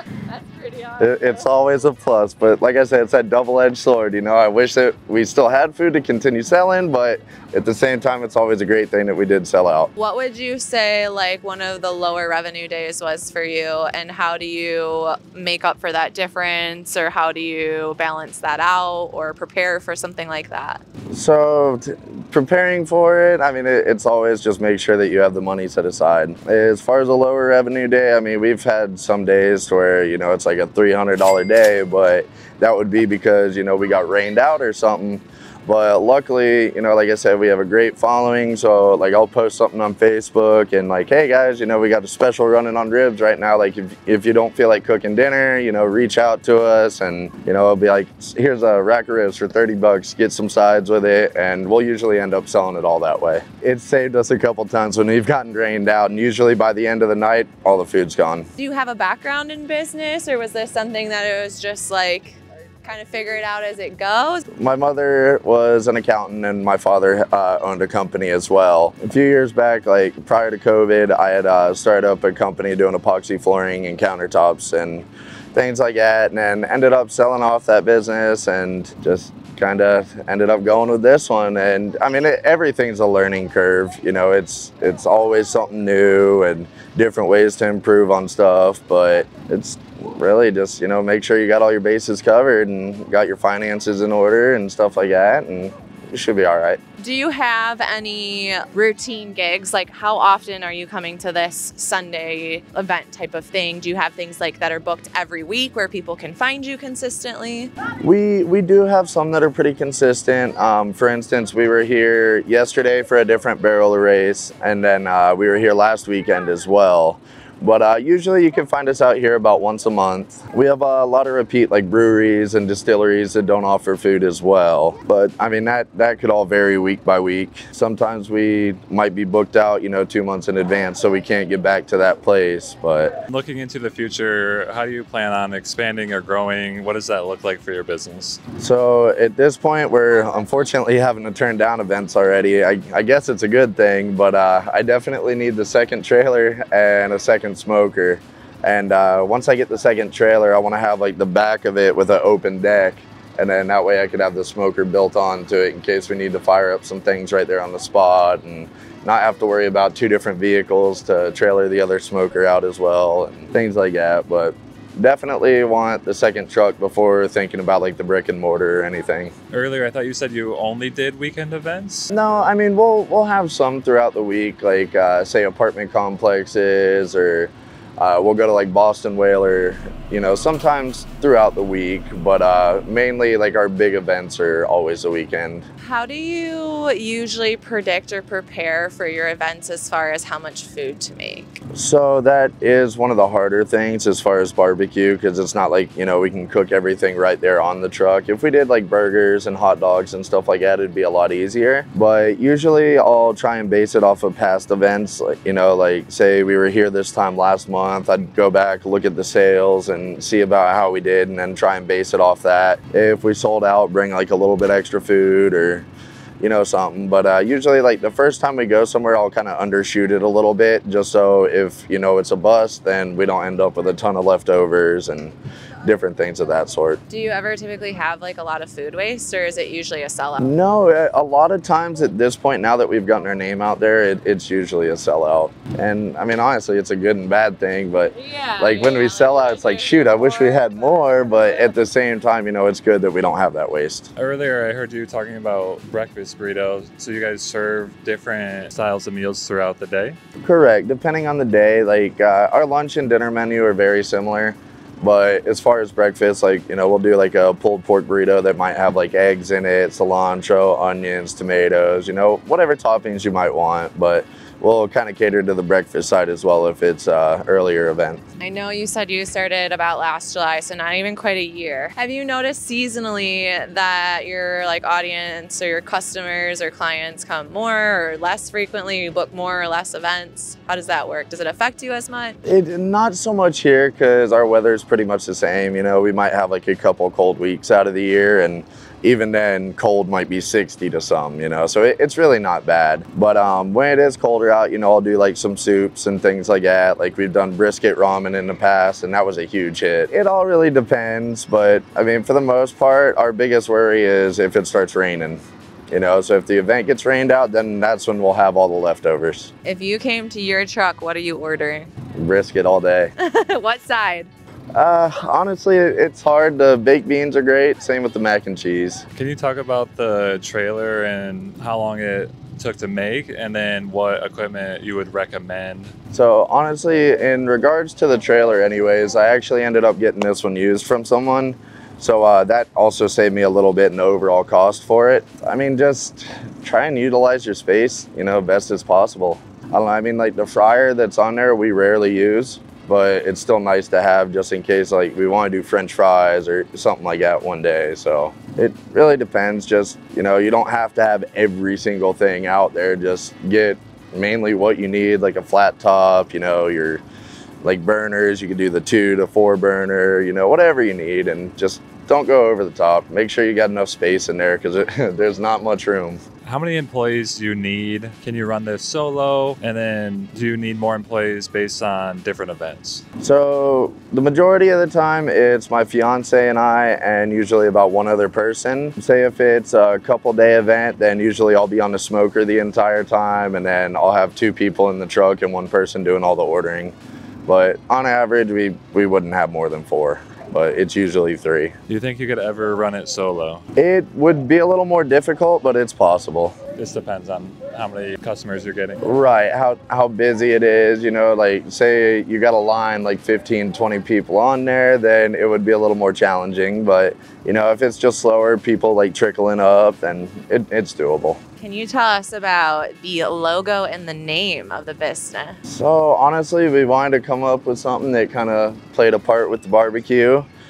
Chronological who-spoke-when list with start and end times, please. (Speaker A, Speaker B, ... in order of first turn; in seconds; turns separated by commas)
Speaker A: 0.3-1.1, Speaker B: 1.0-9.9, Speaker A: 9.9-20.8, Speaker B: 21.1-58.5, Speaker A: 58.5-64.4, Speaker B: 64.5-96.8, Speaker A: 97.0-107.7, Speaker B: 108.0-133.2, Speaker C: 133.3-138.4, Speaker B: 138.6-169.3, Speaker C: 169.5-172.1, Speaker B: 172.1-185.7, Speaker A: 185.8-191.6, Speaker B: 191.7-215.9, Speaker B: 216.4-227.0, Speaker A: 227.1-230.6, Speaker B: 230.4-244.1, Speaker A: 238.2-241.7, Speaker C: 244.2-250.2, Speaker B: 250.4-268.2, Speaker A: 268.4-282.4, Speaker B: 282.4-309.5, Speaker A: 309.6-311.9, Speaker B: 312.1-313.1, Speaker A: 313.2-314.3, Speaker B: 314.7-319.1, Speaker C: 319.1-325.9, Speaker B: 326.1-357.0, Speaker B: 357.6-366.2, Speaker C: 366.4-373.0, Speaker B: 373.2-386.9, Speaker B: 387.5-391.7, Speaker C: 391.9-393.6, Speaker B: 393.8-396.6, Speaker C: 396.8-399.1, Speaker B: 399.0-411.4, Speaker A: 411.6-415.6, Speaker B: 415.7-420.5